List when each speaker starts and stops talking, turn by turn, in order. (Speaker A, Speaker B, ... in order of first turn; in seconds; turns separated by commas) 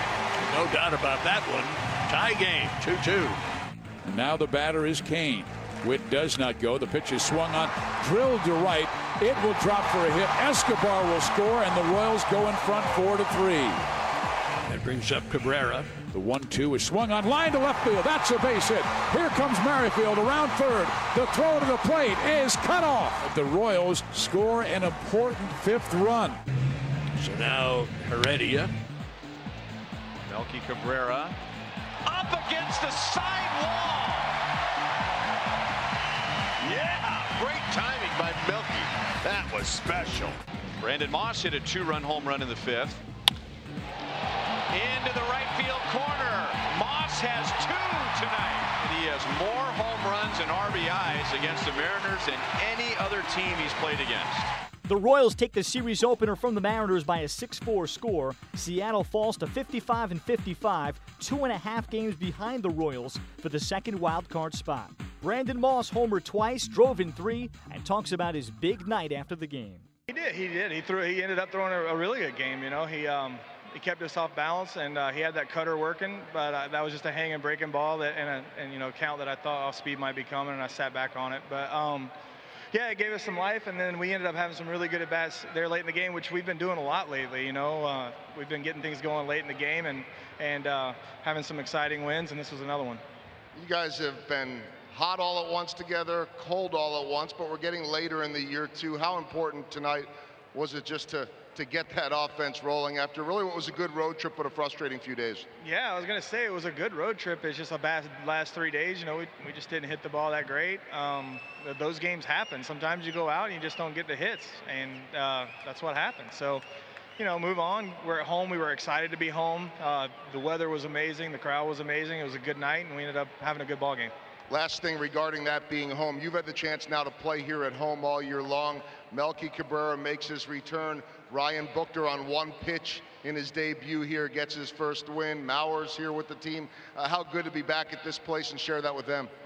Speaker A: 0.4-3.4, Speaker B: 4.0-13.8, Speaker A: 14.7-15.9, Speaker B: 16.1-26.4, Speaker A: 27.2-28.7, Speaker C: 30.3-31.4, Speaker C: 32.1-34.4, Speaker C: 36.6-38.9, Speaker A: 39.3-40.4, Speaker C: 40.8-43.0, Speaker C: 44.7-54.5, Speaker D: 54.9-69.9, Speaker E: 70.1-82.1, Speaker E: 82.7-93.0, Speaker F: 93.5-105.5, Speaker E: 105.6-116.6, Speaker E: 117.2-124.1, Speaker F: 124.5-139.3